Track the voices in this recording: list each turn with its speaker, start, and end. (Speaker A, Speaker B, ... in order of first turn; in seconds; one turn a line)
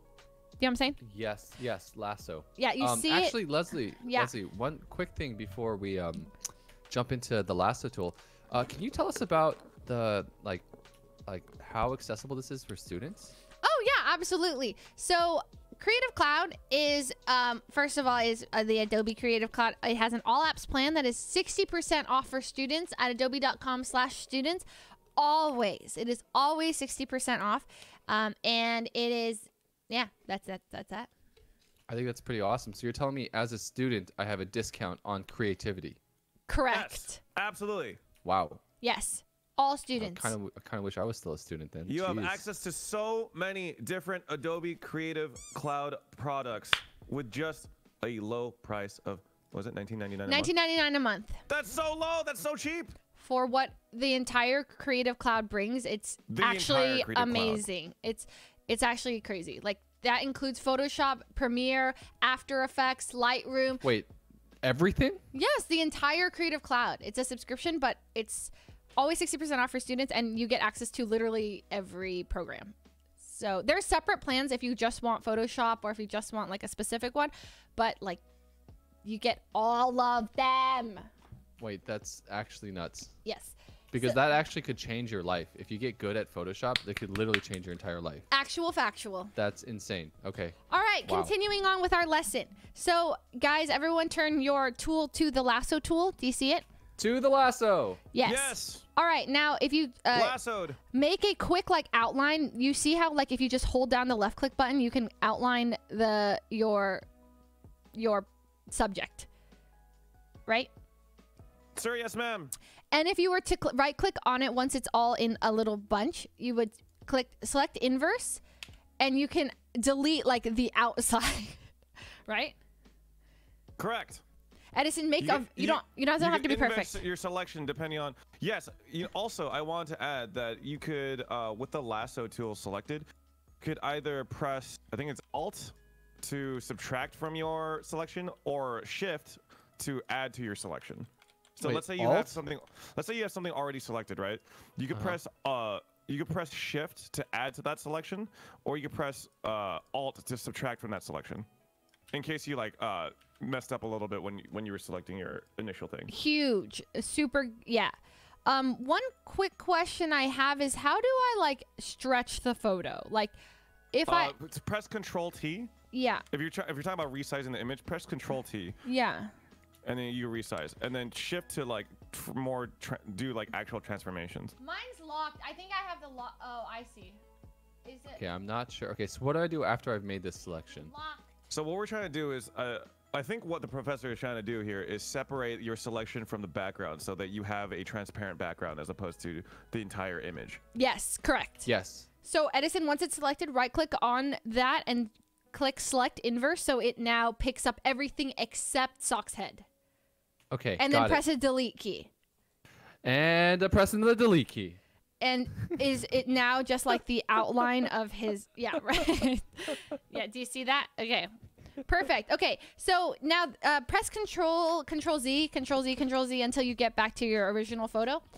Speaker A: 0.6-1.0
Speaker B: 1.0-6.3
Speaker A: 2.6-4.3
Speaker B: 6.9-10.7
Speaker B: 11.3-13.3
Speaker A: 13.6-31.1
Speaker B: 31.9-36.0
Speaker A: 36.5-37.2
Speaker C: 36.7-38.0
Speaker B: 38.2-38.6
Speaker A: 38.8-40.3
Speaker B: 40.0-42.4
Speaker C: 41.9-50.5
Speaker A: 50.3-51.4
Speaker C: 51.5-53.0
Speaker A: 53.2-63.8
Speaker C: 56.3-57.7
Speaker B: 63.8-64.1
Speaker B: 64.6-65.2
Speaker A: 65.3-78.2
Speaker A: 79.0-81.1
Speaker B: 81.6-83.1
Speaker A: 83.2-84.4
Speaker B: 83.9-88.2
Speaker A: 88.3-89.3
Speaker B: 89.3-91.3
Speaker A: 90.7-96.6
Speaker B: 97.0-98.0
Speaker A: 98.1-100.3
Speaker C: 98.2-98.8
Speaker C: 100.1-100.8
Speaker A: 100.9-107.0
Speaker A: 107.9-109.3
Speaker C: 111.7-112.5
Speaker A: 112.9-118.4
Speaker A: 119.0-121.6
Speaker A: 122.3-122.6
Speaker C: 123.8-124.2
Speaker A: 124.7-127.0
Speaker C: 125.2-133.1
Speaker C: 133.6-151.4
Speaker B: 141.6-142.4
Speaker B: 144.9-145.2
Speaker C: 152.1-156.1
Speaker A: 156.1-157.9
Speaker A: 158.4-163.3
Speaker A: 163.9-164.3
Speaker C: 164.1-165.7
Speaker A: 165.9-166.2
Speaker C: 166.3-168.8
Speaker A: 168.8-169.3
Speaker C: 169.8-174.6
Speaker A: 174.6-177.2
Speaker A: 177.8-178.2
Speaker B: 178.2-180.9
Speaker A: 180.8-181.3
Speaker C: 181.5-190.6
Speaker A: 190.7-191.7
Speaker B: 191.7-192.1
Speaker A: 192.2-199.7
Speaker B: 200.5-201.2
Speaker A: 200.8-202.1
Speaker B: 203.0-204.8
Speaker A: 205.2-211.3
Speaker A: 211.8-218.2